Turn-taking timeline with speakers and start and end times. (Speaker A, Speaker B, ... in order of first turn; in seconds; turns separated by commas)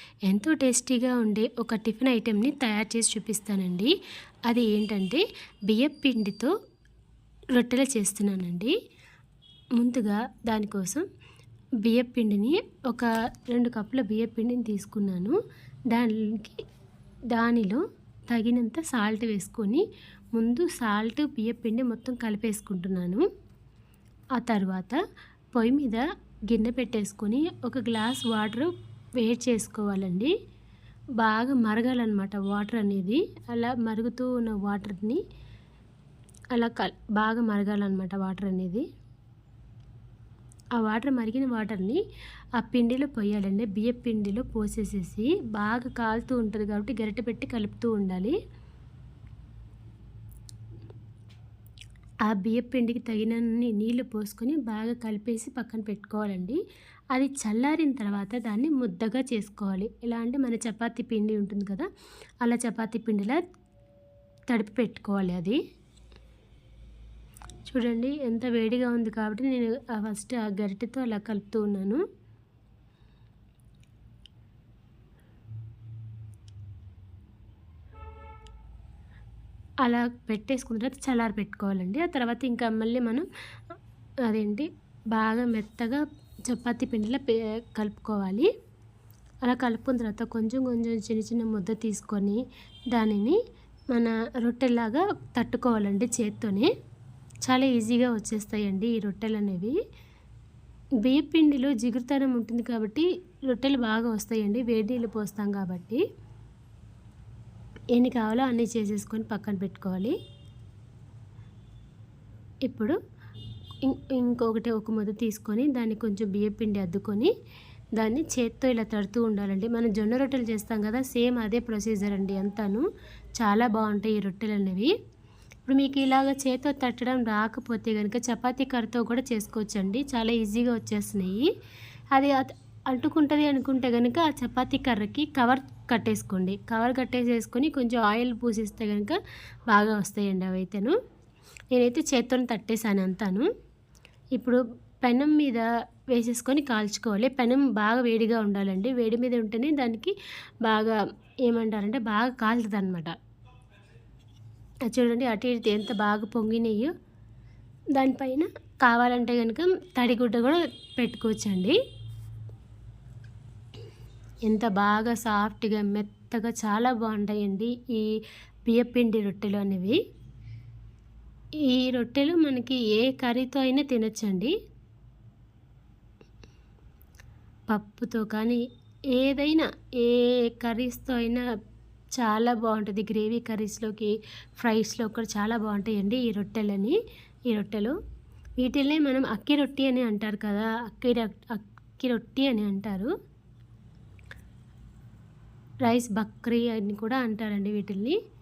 Speaker A: 0.2-3.9, Speaker A: 4.5-6.5, Speaker A: 7.5-8.7, Speaker A: 9.8-11.1, Speaker A: 11.8-15.4, Speaker A: 15.9-16.6, Speaker A: 17.3-23.2, Speaker A: 24.4-25.0, Speaker A: 25.5-30.3, Speaker A: 31.2-35.2, Speaker A: 36.5-38.9, Speaker A: 40.8-42.0, Speaker A: 42.6-48.4, Speaker A: 52.2-56.6, Speaker A: 57.1-61.9, Speaker A: 62.4-63.4, Speaker A: 64.5-65.6, Speaker A: 67.7-72.0, Speaker A: 79.8-83.3, Speaker A: 84.3-88.5, Speaker A: 89.4-92.4, Speaker A: 92.9-93.4, Speaker A: 93.9-96.7, Speaker A: 97.5-99.8, Speaker A: 101.0-106.0, Speaker A: 107.9-110.2, Speaker A: 112.7-113.0, Speaker A: 113.8-117.3, Speaker A: 118.0-122.8, Speaker A: 123.4-124.9, Speaker A: 125.7-131.5, Speaker A: 132.1-139.2, Speaker A: 139.7-141.0, Speaker A: 141.7-143.5, Speaker A: 144.4-153.1, Speaker A: 154.9-156.9, Speaker A: 157.9-161.8, Speaker A: 164.4-168.1, Speaker A: 168.7-170.0, Speaker A: 171.7-174.5, Speaker A: 177.7-181.4, Speaker A: 182.2-187.0, Speaker A: 187.5-187.9, Speaker A: 188.6-193.1, Speaker A: 195.8-198.2